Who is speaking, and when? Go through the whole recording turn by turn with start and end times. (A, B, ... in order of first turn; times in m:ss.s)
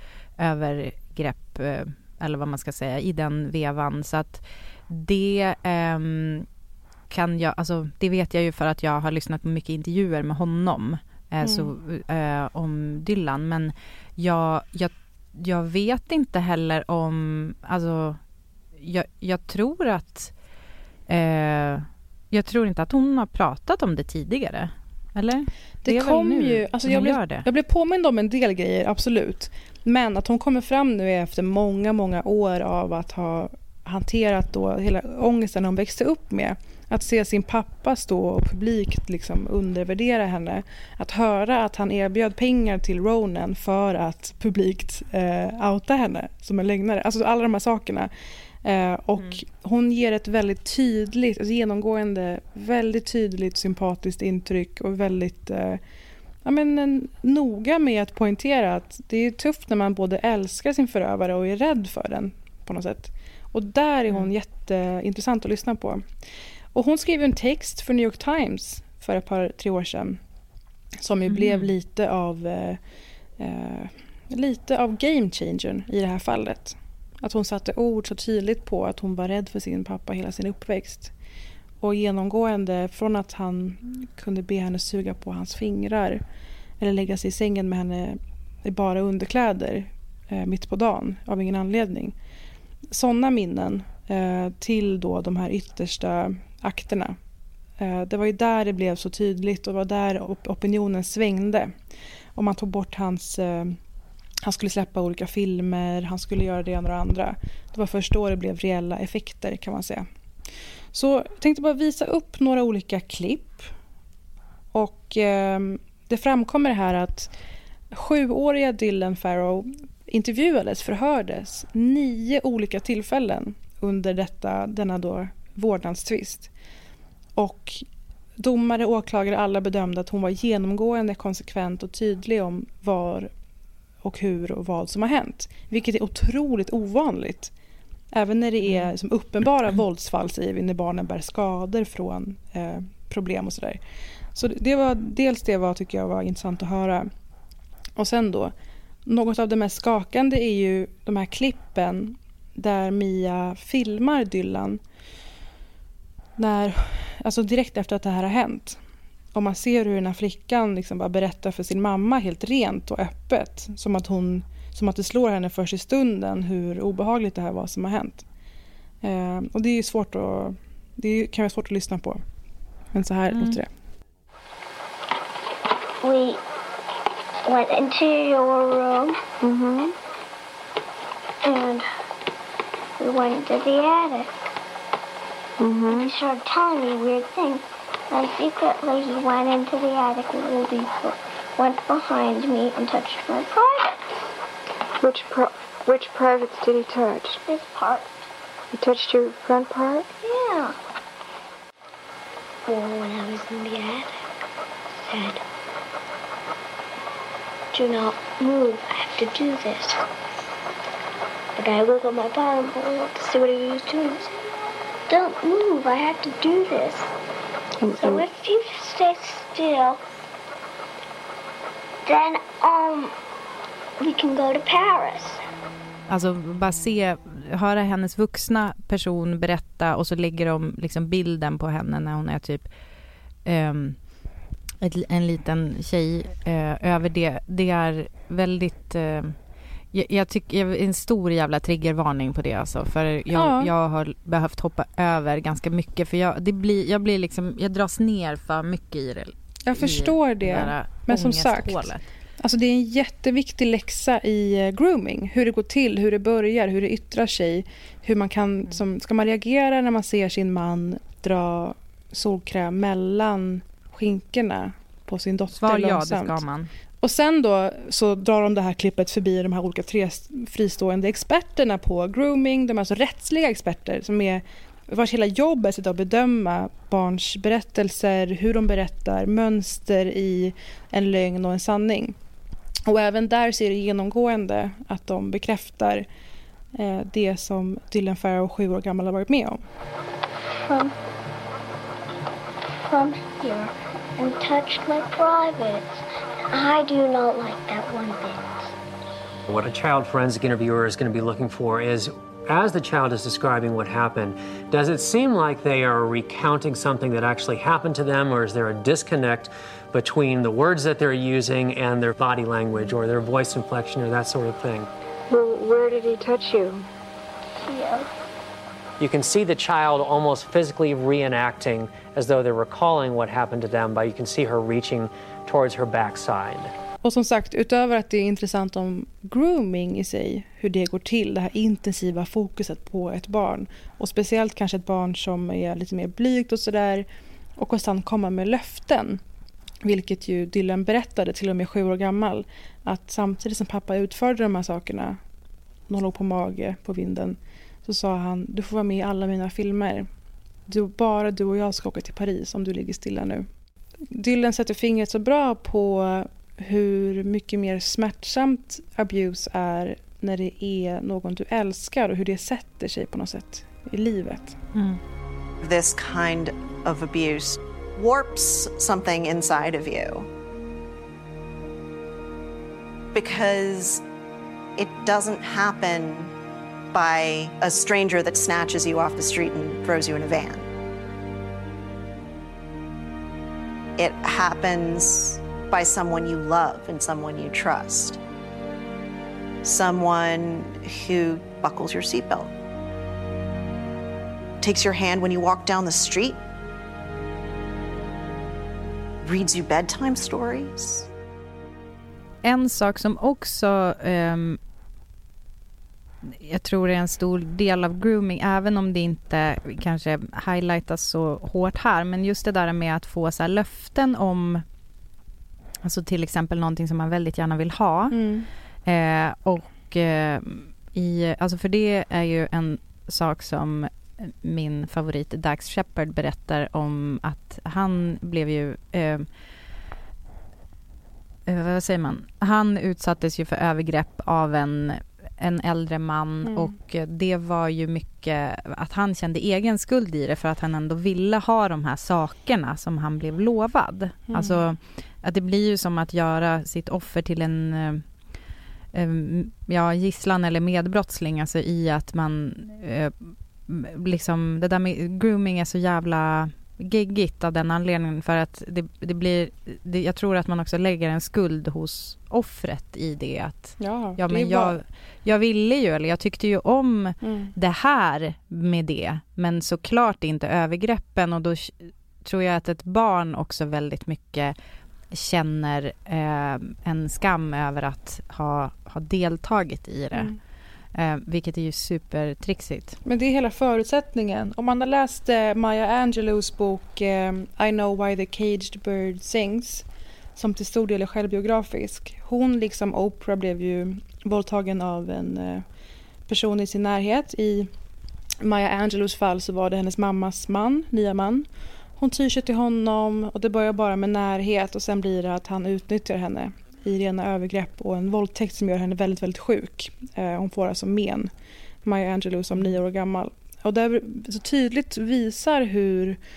0:00.4-0:06.5 A
0:07.1-0:18.2 A
0:11.4-0:11.7 B
0:18.8-0:20.3 A
0:21.1-0:27.4 A
0:25.8-0:48.1 B
0:48.6-0:55.8 B
0:56.4-1:06.0 B
1:06.7-1:10.2 B
1:11.0-1:12.8 B
1:11.3-1:11.7 A
1:13.4-1:21.1 B
1:21.8-1:26.2 B
1:26.8-1:32.2 B
1:32.9-1:37.2 B
1:37.8-1:41.7 B
1:42.4-1:43.8 B
1:44.4-1:50.0 B
1:50.9-1:53.7 B
1:54.7-1:57.3 B
1:57.9-2:06.5 B
2:07.4-2:07.8 B
2:08.4-2:13.3 B
2:14.0-2:17.5 B
2:18.1-2:23.8 B
2:18.6-2:18.9 A
2:24.4-2:27.1 B
2:28.0-2:28.5 B
2:29.0-2:34.8 B
2:36.4-2:38.8 B
2:39.3-2:48.2 B
2:49.0-2:52.2 B
2:52.9-2:53.7 B
2:53.3-2:53.6 A
2:56.0-2:56.4 C
2:57.4-2:59.2 C
2:59.4-2:59.9 D
3:01.4-3:01.9 C
3:03.0-3:04.3 C
3:05.6-3:06.1 D
3:05.8-3:14.0 C
3:15.0-3:17.4 D
3:17.4-3:18.1 C
3:18.7-3:20.1 D
3:20.2-3:20.8 C
3:22.7-3:24.2 C
3:25.0-3:25.4 C
3:27.7-3:30.0 C
3:31.6-3:34.3 C
3:35.1-3:37.1 C
3:38.0-3:40.0 C
3:42.0-3:43.1 C
3:44.0-3:45.4 C
3:46.1-3:52.7 A
3:53.4-3:54.0 A
3:54.8-3:59.4 A
3:59.9-4:12.0 A
4:03.3-4:03.7 B
4:09.6-4:26.4 B
4:25.5-4:26.7 A
4:27.0-4:42.2 B
4:42.9-4:46.0 B
4:46.7-4:49.6 B
4:50.7-4:50.9 C
4:52.8-4:56.0 C
4:56.5-4:58.7 C
4:59.5-5:14.9 E
5:15.3-5:16.9 D
5:17.6-5:18.1 C
5:19.0-5:26.7 E
5:27.0-5:37.0 B
5:37.6-5:39.2 B
5:39.8-5:45.2 B
5:45.9-5:50.1 B
5:50.7-5:53.4 B
5:54.1-6:04.6 B
6:04.7-6:05.0 A
6:05.6-6:10.3 F
6:13.1-6:14.0 F
6:14.8-6:16.3 F
6:16.9-6:20.7 F
6:24.0-6:28.2 F
6:29.6-6:32.5 F
6:34.6-6:36.4 F
6:39.2-6:41.1 F
6:42.4-6:44.6 A
6:46.2-6:54.6 A
6:55.8-6:58.2 A
6:58.1-6:58.5 B
6:58.8-7:09.3 A
7:11.4-7:28.0 A
7:16.4-7:16.7 B
7:24.3-7:24.6 B
7:28.9-7:54.6 A
7:43.8-7:44.8 B
7:47.2-7:47.5 B
7:55.1-8:00.3 A
8:01.0-8:03.0 A
8:03.0-8:15.6 B
8:16.3-8:17.7 B
8:18.4-8:21.4 B
8:22.0-8:31.3 B
8:31.8-8:36.2 B